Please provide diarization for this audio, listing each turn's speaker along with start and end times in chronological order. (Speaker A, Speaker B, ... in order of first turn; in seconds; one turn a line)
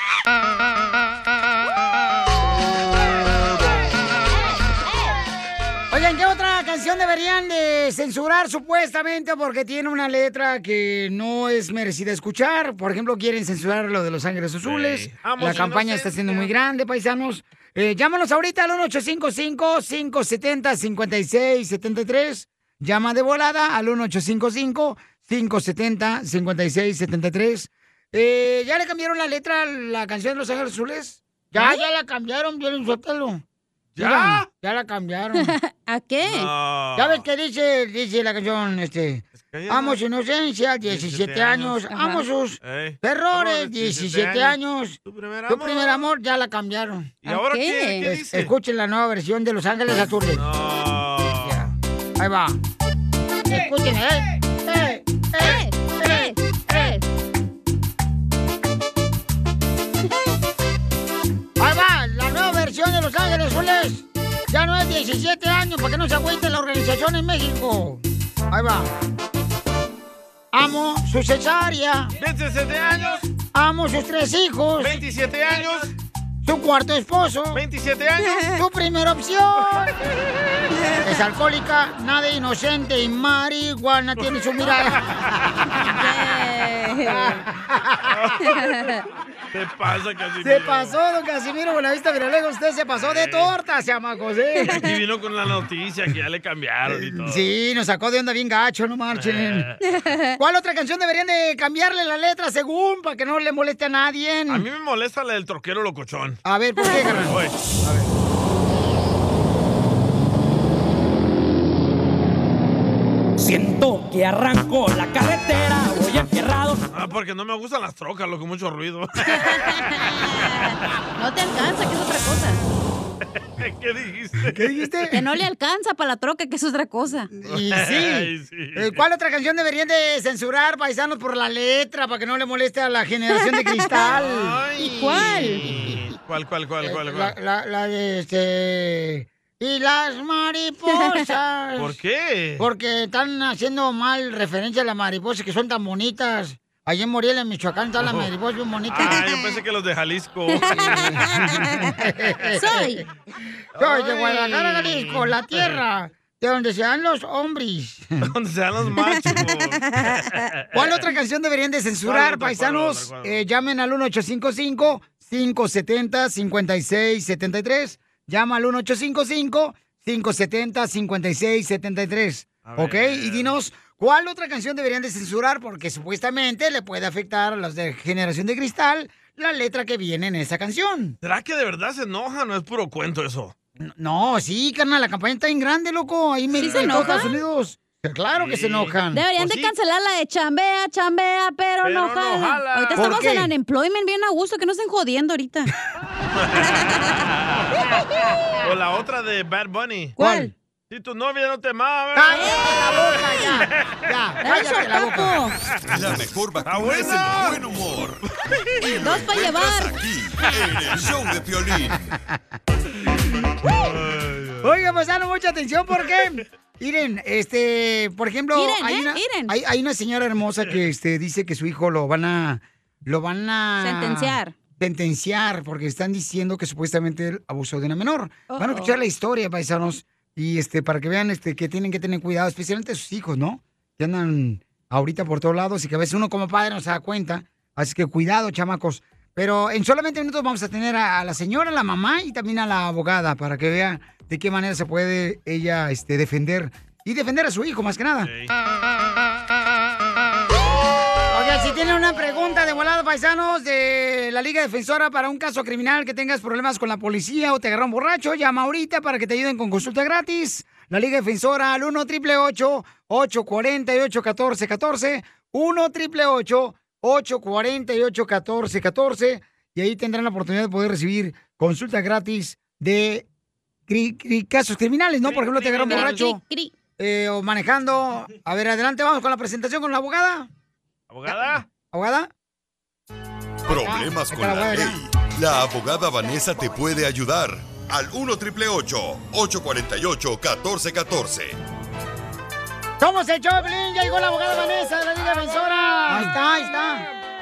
Speaker A: 5.9-33.4
Speaker B: 14.6-16.5
Speaker C: 31.6-31.8
Speaker B: 34.0-34.5
Speaker A: 34.0-35.5
Speaker C: 35.4-36.5
Speaker B: 36.2-37.2
Speaker A: 37.0-47.1
Speaker B: 39.4-40.0
Speaker B: 40.9-41.8
Speaker C: 41.9-42.2
Speaker B: 42.6-46.0
Speaker B: 47.2-48.5
Speaker C: 47.3-48.1
Speaker A: 48.0-50.4
Speaker B: 50.3-51.7
Speaker A: 51.4-52.6
Speaker A: 53.5-56.9
Speaker C: 55.4-57.0
Speaker A: 61.6-68.9
Speaker A: 70.5-72.2
Speaker B: 72.2-73.3
Speaker A: 73.5-75.0
Speaker B: 74.8-75.9
Speaker A: 76.4-77.6
Speaker B: 77.5-78.4
Speaker A: 78.5-79.9
Speaker C: 80.7-81.1
Speaker A: 81.0-85.1
Speaker B: 84.2-85.3
Speaker C: 85.8-87.4
Speaker A: 87.1-88.1
Speaker B: 88.1-88.6
Speaker C: 88.5-89.0
Speaker B: 89.5-91.0
Speaker A: 90.4-94.8
Speaker B: 92.9-93.5
Speaker C: 94.6-94.9
Speaker B: 94.7-97.5
Speaker A: 96.9-99.7
Speaker B: 99.1-99.8
Speaker C: 99.8-100.4
Speaker A: 100.4-104.7
Speaker B: 104.5-106.4
Speaker A: 106.5-108.1
Speaker C: 106.8-107.1
Speaker B: 107.2-107.6
Speaker D: 113.4-116.8
Speaker B: 116.9-119.8
Speaker C: 119.2-122.6
Speaker B: 123.6-124.9
Speaker A: 124.5-125.2
Speaker C: 125.1-127.3
Speaker A: 127.3-136.0
Speaker B: 127.5-129.0
Speaker C: 133.3-134.1
Speaker B: 134.1-137.3
Speaker C: 134.8-135.6
Speaker A: 136.8-142.0
Speaker C: 140.9-141.3
Speaker B: 141.8-142.7
Speaker A: 142.6-149.3
Speaker B: 148.0-148.3
Speaker B: 148.9-151.4
Speaker C: 150.5-151.9
Speaker A: 150.8-153.0
Speaker C: 152.6-153.0
Speaker B: 153.8-155.8
Speaker A: 153.8-158.3
Speaker B: 158.2-161.1
Speaker C: 159.1-160.3
Speaker A: 160.7-181.2
Speaker B: 162.1-163.4
Speaker B: 172.7-173.5
Speaker B: 181.2-183.5
Speaker A: 183.8-189.2
Speaker C: 186.5-187.3
Speaker B: 186.6-187.2
Speaker B: 188.3-189.7
Speaker C: 189.1-195.7
Speaker B: 191.8-193.2
Speaker A: 193.0-193.5
Speaker B: 196.4-196.7
Speaker C: 196.6-197.1
Speaker B: 197.4-197.7
Speaker B: 198.6-200.2
Speaker C: 200.2-200.5
Speaker A: 200.2-200.5
Speaker B: 200.9-203.6
Speaker A: 202.2-205.4
Speaker C: 202.3-202.7
Speaker C: 204.4-205.6
Speaker E: 205.9-208.2
Speaker B: 206.7-207.6
Speaker E: 208.8-212.0
Speaker C: 209.0-210.7
Speaker A: 211.9-212.4
Speaker B: 213.7-214.7
Speaker A: 214.6-248.3
Speaker C: 218.5-219.5
Speaker C: 223.8-224.6
Speaker C: 228.5-229.0
Speaker B: 248.2-248.5
Speaker A: 251.3-273.3
Speaker A: 273.9-276.4
Speaker B: 275.2-276.3
Speaker C: 275.9-276.7
Speaker A: 277.0-280.5
Speaker B: 281.1-281.6
Speaker A: 281.3-282.3
Speaker A: 283.7-285.0
Speaker E: 283.7-291.6
Speaker A: 293.0-297.1